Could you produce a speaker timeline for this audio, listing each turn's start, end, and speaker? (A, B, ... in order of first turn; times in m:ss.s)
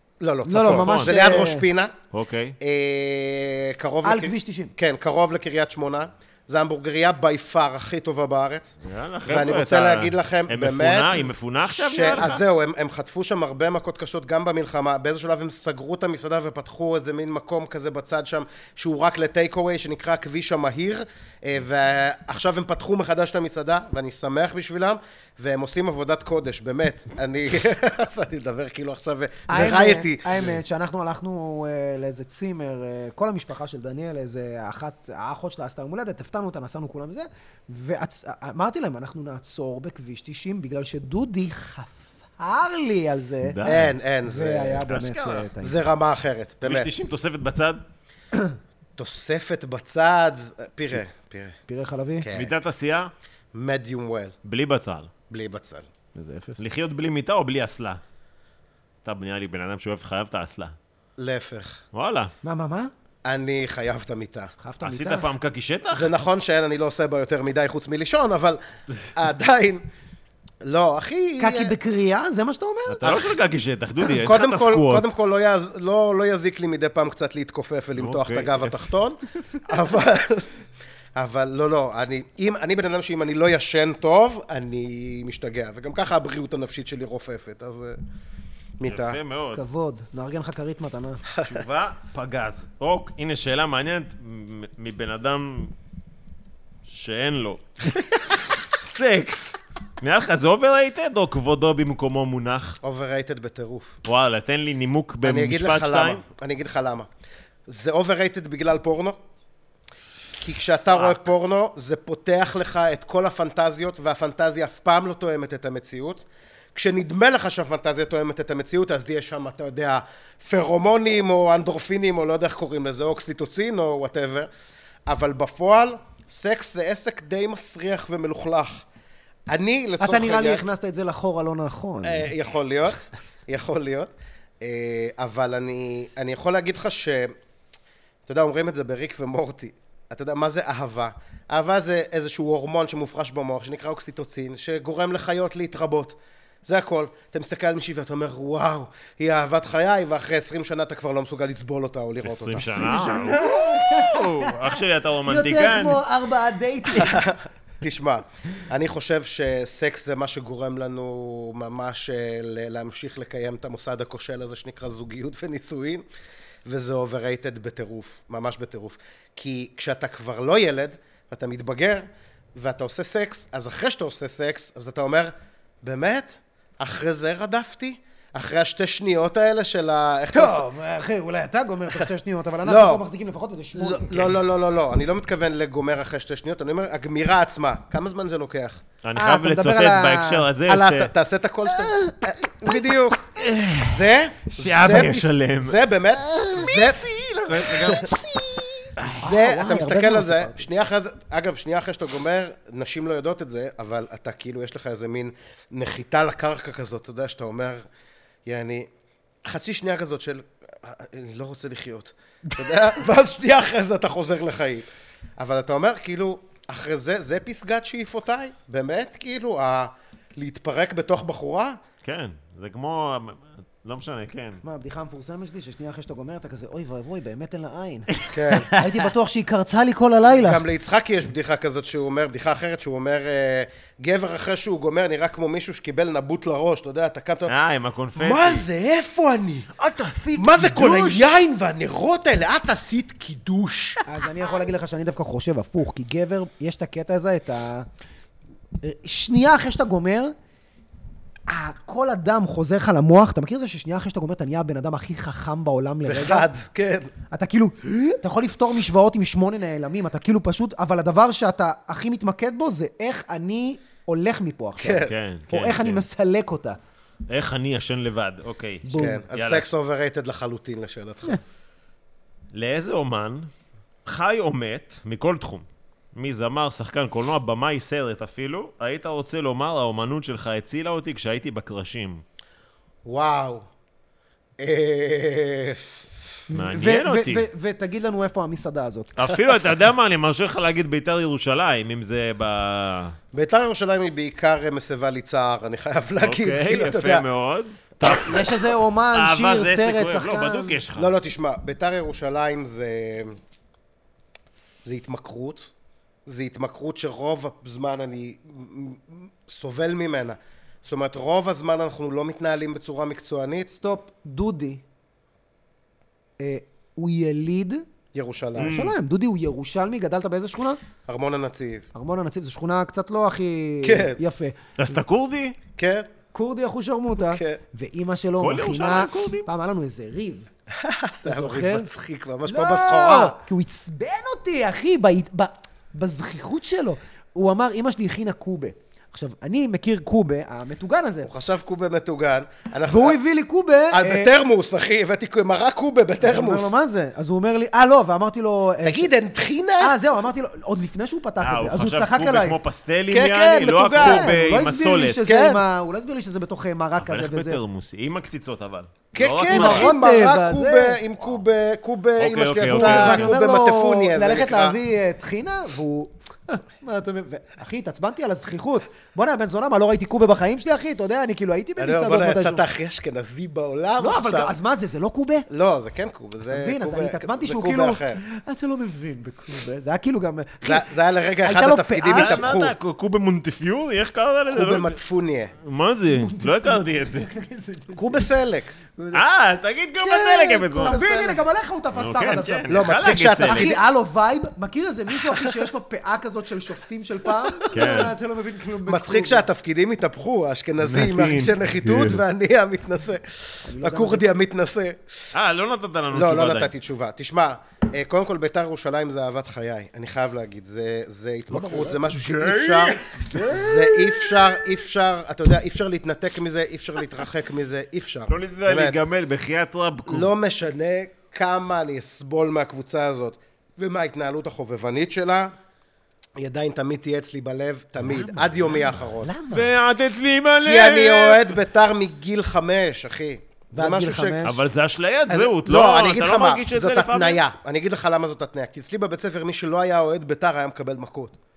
0:00.2-0:01.9 A
0:00.4-0:01.7 B
0:00.6-0:01.2 C
0:02.1-0:02.6 C
0:02.6-0:30.5 A
0:04.0-0:04.7 B
0:08.8-0:12.4 C
0:29.5-0:43.6 B
0:43.4-0:43.9 C
0:43.6-0:44.9 A
0:44.2-0:45.8 B
0:44.9-0:45.5 C
0:45.6-0:46.9 A
0:46.6-0:47.8 C
0:49.0-0:51.6 A
0:51.7-0:52.3 B
0:52.2-0:52.6 A
0:52.3-0:53.1 C
0:53.5-0:54.4 A
0:54.4-0:55.1 C
0:55.3-0:55.8 A
0:56.1-0:56.6 B
0:56.6-0:58.0 C
0:59.0-1:00.7 C
1:01.2-1:01.8 A
1:01.9-1:02.3 C
1:02.4-1:02.9 B
1:03.2-1:04.5 A
1:04.6-1:05.3 B
1:04.8-1:06.1 C
1:05.9-1:09.8 A
1:10.6-1:11.8 A
1:11.4-1:13.0 B
1:12.9-1:15.1 C
1:13.0-1:13.4 A
1:14.0-1:20.5 A
1:18.0-1:18.9 C
1:21.1-1:28.0 A
1:28.8-1:29.2 A
1:28.8-1:29.6 C
1:29.5-1:31.2 B
1:31.3-1:31.6 A
1:31.4-1:35.7 C
1:36.9-1:37.8 C
1:38.6-1:42.8 C
1:42.8-1:44.0 A
1:44.1-1:46.2 C
1:45.2-1:47.1 A
1:47.7-1:49.2 A
1:50.4-2:04.5 A
2:05.1-2:08.8 A
2:09.5-2:10.6 A
2:10.0-2:12.3 B
2:12.0-2:17.4 A
2:18.3-2:33.4 A
2:32.2-2:36.0 C
2:32.8-2:37.3 B
2:36.9-2:46.0 A
2:46.6-3:00.6 A
3:00.3-3:04.4 B
3:02.6-3:03.0 A
3:03.8-3:08.8 A
3:09.0-3:11.1 C
3:09.2-3:10.4 B
3:10.6-3:17.1 A
3:11.7-3:12.7 B
3:13.4-3:15.8 C
3:16.4-3:18.2 C
3:17.6-3:18.1 A
3:17.9-3:20.7 B
3:19.1-3:27.8 A
3:28.4-3:28.9 A
3:29.4-3:41.8 A
3:42.0-3:44.6 C
3:44.6-3:50.6 B
3:48.3-3:48.7 A
3:50.3-3:57.5 A
3:57.5-3:58.6 C
3:58.1-3:59.7 A
3:59.8-4:00.3 C
4:00.2-4:01.4 B
4:00.3-4:04.0 A
4:04.0-4:07.9 B
4:08.8-4:10.4 B
4:11.5-4:16.5 B
4:16.0-4:17.1 A
4:17.3-4:26.8 B
4:24.8-4:25.2 A
4:25.1-4:26.0 C
4:27.3-4:29.6 C
4:28.8-4:29.2 B
4:28.9-4:31.4 A
4:32.5-4:33.5 C
4:34.0-4:42.2 C
4:43.0-4:43.7 A
4:44.6-4:46.0 A
4:46.5-4:49.1 B
4:46.5-4:47.4 C
4:49.2-4:53.2 C
4:53.3-4:57.2 A
4:56.2-5:01.1 C
4:58.0-5:00.8 B
5:01.0-5:03.4 A
5:04.8-5:05.7 A
5:06.3-5:13.7 A
5:13.7-5:14.8 B
5:16.4-5:17.8 B
5:18.1-5:18.7 A
5:18.6-5:20.8 B
5:18.6-5:18.9 C
5:21.1-5:21.8 A
5:21.9-5:25.0 B
5:23.8-5:24.2 A
5:24.8-5:25.6 C
5:25.8-5:26.1 A
5:26.3-5:30.5 B
5:27.2-5:27.6 A
5:28.4-5:29.5 C
5:30.8-5:33.4 A
5:31.2-5:31.9 B
5:32.4-5:41.3 B
5:41.2-5:43.2 A
5:42.8-5:44.3 B
5:43.9-5:46.8 A
5:46.2-5:49.1 B
5:48.8-5:50.0 A
5:49.8-5:52.6 B
5:51.4-5:55.2 C
5:53.1-5:54.4 A
5:54.0-5:57.6 B
5:55.2-5:55.6 A
5:57.0-5:59.9 C
5:59.1-6:04.8 A
5:59.5-6:01.0 B
6:02.2-6:03.3 C
6:02.6-6:12.6 B
6:11.8-6:14.6 A
6:14.0-6:15.5 B
6:15.5-6:18.2 A
6:16.4-6:20.9 B
6:20.6-6:22.7 A
6:21.4-6:22.5 B
6:22.1-6:25.0 C
6:24.5-6:25.6 A
6:25.6-6:27.3 C
6:26.1-6:28.3 B
6:27.9-6:28.7 A
6:29.0-6:29.2 B
6:29.1-6:31.0 C
6:30.0-6:39.4 B
6:30.8-6:31.4 A
6:31.9-6:33.8 C
6:32.7-6:33.8 A
6:37.7-6:38.1 C
6:38.8-6:45.0 A
6:40.8-6:42.2 C
6:43.6-6:44.3 B
6:45.3-6:46.7 C
6:46.1-6:59.0 A
6:51.5-6:52.0 B
6:52.1-6:54.6 C
6:53.3-6:53.9 B
6:58.3-7:00.3 C
7:00.1-7:05.5 A
7:06.4-7:09.3 A
7:08.0-7:09.7 B
7:09.5-7:11.6 C
7:10.6-7:14.4 A
7:13.7-7:14.6 B
7:14.4-7:17.4 C
7:15.3-7:21.3 A